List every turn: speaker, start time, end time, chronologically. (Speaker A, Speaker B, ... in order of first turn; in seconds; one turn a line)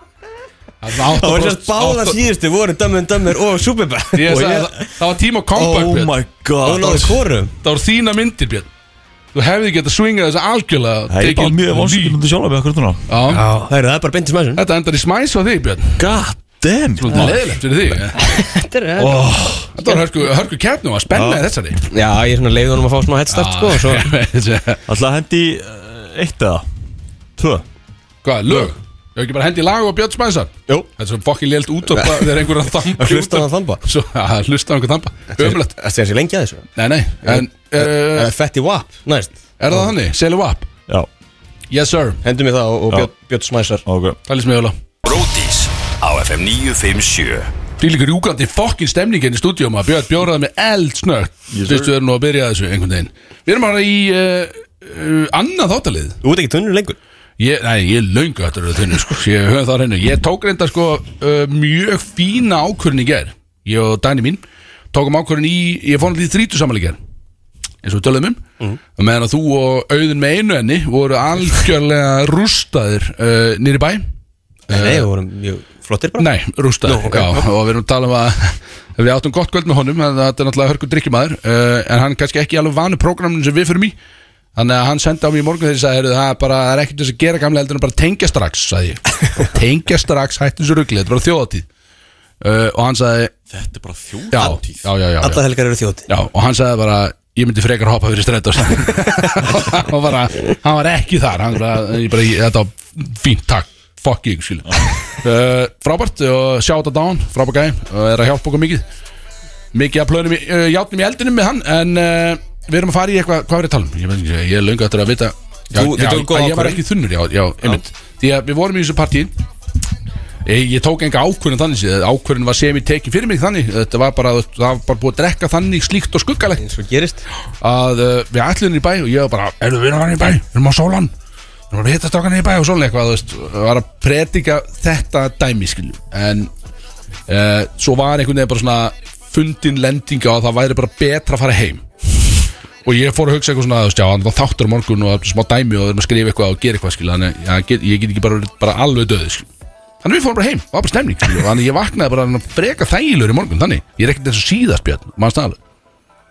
Speaker A: 0.8-2.2
Speaker B: 1.1-4.9
Speaker A: 4.1-6.1
Speaker C: 5.5-7.2
Speaker B: 6.6-7.5
Speaker A: 7.6-8.7
Speaker A: 9.3-12.2
Speaker C: 11.1-13.1
Speaker A: 13.1-13.4
Speaker B: 13.3-14.6
Speaker A: 14.6-16.0
Speaker C: 16.0-17.4
Speaker A: 17.0-18.2
Speaker B: 17.1-17.4
Speaker B: 18.1-20.0
Speaker C: 19.0-19.7
Speaker A: 19.7-21.8
Speaker C: 21.1-21.4
Speaker B: 21.9-24.1
Speaker A: 23.3-24.8
Speaker C: 24.9-26.6
Speaker C: 27.4-27.6
Speaker A: 28.2-35.7
Speaker B: 31.9-32.4
Speaker B: 33.0-33.8
Speaker B: 35.4-36.7
Speaker A: 36.8-38.3
Speaker B: 37.2-39.9
Speaker A: 39.6-40.7
Speaker A: 41.7-42.2
Speaker B: 42.2-43.8
Speaker C: 43.8-44.2
Speaker A: 44.3-44.7
Speaker D: 45.0-47.5
Speaker A: 47.8-56.2
Speaker C: 51.5-51.9
Speaker B: 56.2-57.0
Speaker A: 57.4-64.4
Speaker A: 64.9-67.0
Speaker A: 67.8-68.4
Speaker A: 69.0-74.0
Speaker A: 74.7-75.0
Speaker B: 74.7-76.3
Speaker A: 76.2-83.9
Speaker B: 76.8-77.5
Speaker A: 84.5-91.7
Speaker A: 92.4-93.3
Speaker C: 93.5-94.9
Speaker A: 94.3-95.4
Speaker B: 95.2-96.1
Speaker A: 96.1-108.8
Speaker A: 109.7-119.3
Speaker B: 115.7-116.8
Speaker A: 120.5-126.6
Speaker B: 126.6-127.2
Speaker A: 127.6-131.1
Speaker A: 131.7-136.5
Speaker A: 137.3-141.8
Speaker A: 142.8-149.5
Speaker A: 150.0-155.6